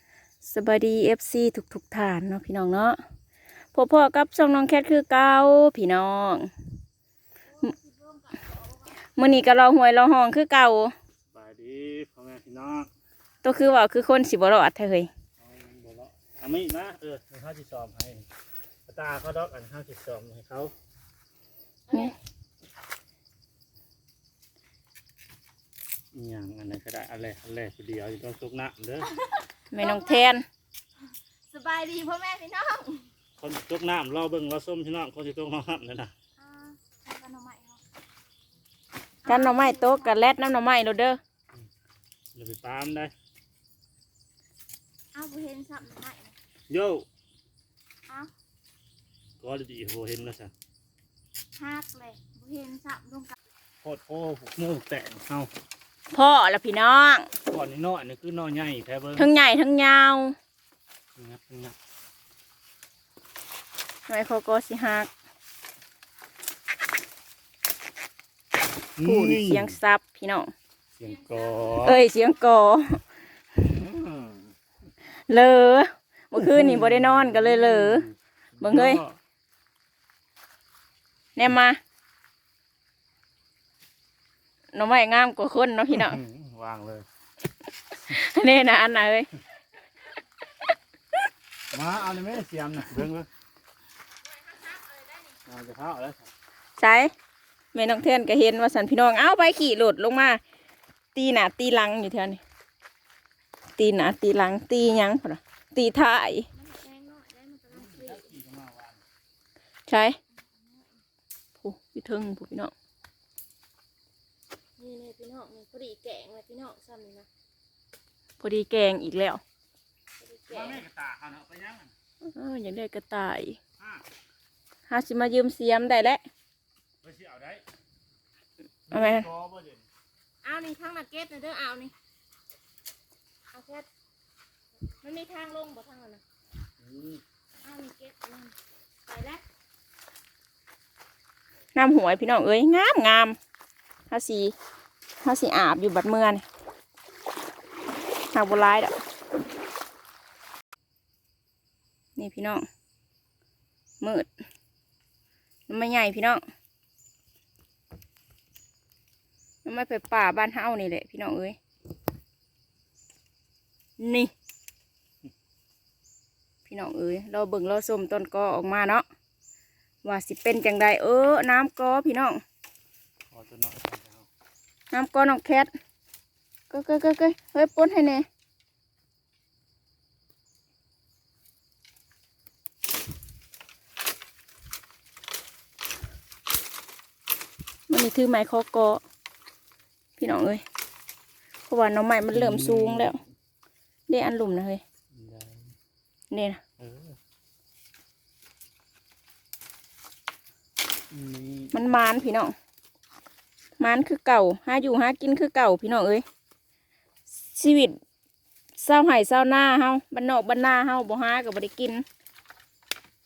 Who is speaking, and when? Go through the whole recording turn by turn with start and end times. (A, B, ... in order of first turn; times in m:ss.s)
0:00.4-0:03.0 A
0:03.7-0:06.5 A
0:07.6-0:08.9 B
0:09.2-0:10.9 A
0:11.3-0:12.9 C
0:13.4-0:15.1 A
0:15.4-0:18.3 C
0:18.9-0:20.7 C
0:21.9-0:22.1 B
0:26.1-0:29.1 C
0:29.0-0:30.3 B
0:29.7-0:30.4 A
0:31.5-0:33.1 B
0:33.4-0:36.1 C
0:36.4-0:37.8 B
0:39.2-0:40.1 B
0:39.3-0:41.2 A
0:42.3-0:43.1 C
0:45.1-0:46.3 B
0:46.7-0:47.0 C
0:49.4-0:50.5 C
0:51.6-0:53.3 B
0:53.8-0:55.5 C
0:56.1-0:57.3 A
0:57.5-0:59.3 C
0:59.2-1:00.4 A
1:01.2-1:01.8 C
1:04.1-1:05.1 A
1:09.0-1:09.7 C
1:09.0-1:10.5 A
1:11.0-1:12.0 C
1:11.8-1:13.0 A
1:13.7-1:14.5 C
1:15.3-1:18.0 A
1:16.3-1:19.2 C
1:18.6-1:19.0 A
1:21.4-1:21.8 A
1:24.7-1:26.2 A
1:25.9-1:27.0 C
1:28.1-1:29.3 A
1:31.7-1:33.3 C
1:34.4-1:35.2 B
1:35.4-1:36.3 C
1:36.8-1:37.1 A
1:37.7-1:40.4 A
1:41.1-1:42.4 A
1:43.8-1:46.5 A
1:46.5-1:48.3 B
1:47.7-1:49.0 C
1:49.9-1:50.2 A
1:50.5-1:51.0 B
1:51.6-1:52.7 A
1:54.8-1:57.3 B
1:58.4-1:59.4 A
2:00.2-2:00.8 B
2:00.5-2:01.9 C
2:02.2-2:03.6 A
2:03.8-2:04.0 C
2:04.9-2:06.2 A
2:07.0-2:07.6 C
2:08.9-2:09.9 C
2:08.9-2:09.3 A
2:10.4-2:11.9 B
2:13.5-2:13.9 B
2:15.0-2:16.2 B
2:16.8-2:17.2 C
2:17.6-2:18.5 B
2:19.1-2:19.4 B
2:21.7-2:23.4 A
2:24.1-2:24.5 A
2:25.2-2:26.4 A
2:28.3-2:29.0 A
2:32.2-2:32.6 A
2:34.0-2:34.3 A
2:35.7-2:36.4 A
2:39.6-2:41.6 A
2:44.0-2:44.3 A
2:46.7-2:49.0 A
2:50.0-2:52.4 A
2:53.3-2:54.3 C
2:54.9-2:55.7 A
2:56.7-2:58.3 A
3:07.9-3:09.0 A
3:10.2-3:10.6 A
3:11.7-3:13.2 A
3:12.3-3:13.3 C
3:14.1-3:14.8 A
3:15.1-3:15.7 C
3:16.3-3:16.6 A
3:16.8-3:17.2 C
3:21.1-3:21.8 C
3:21.7-3:22.5 A
3:23.8-3:26.2 A
3:27.5-3:28.0 A
3:28.8-3:32.0 A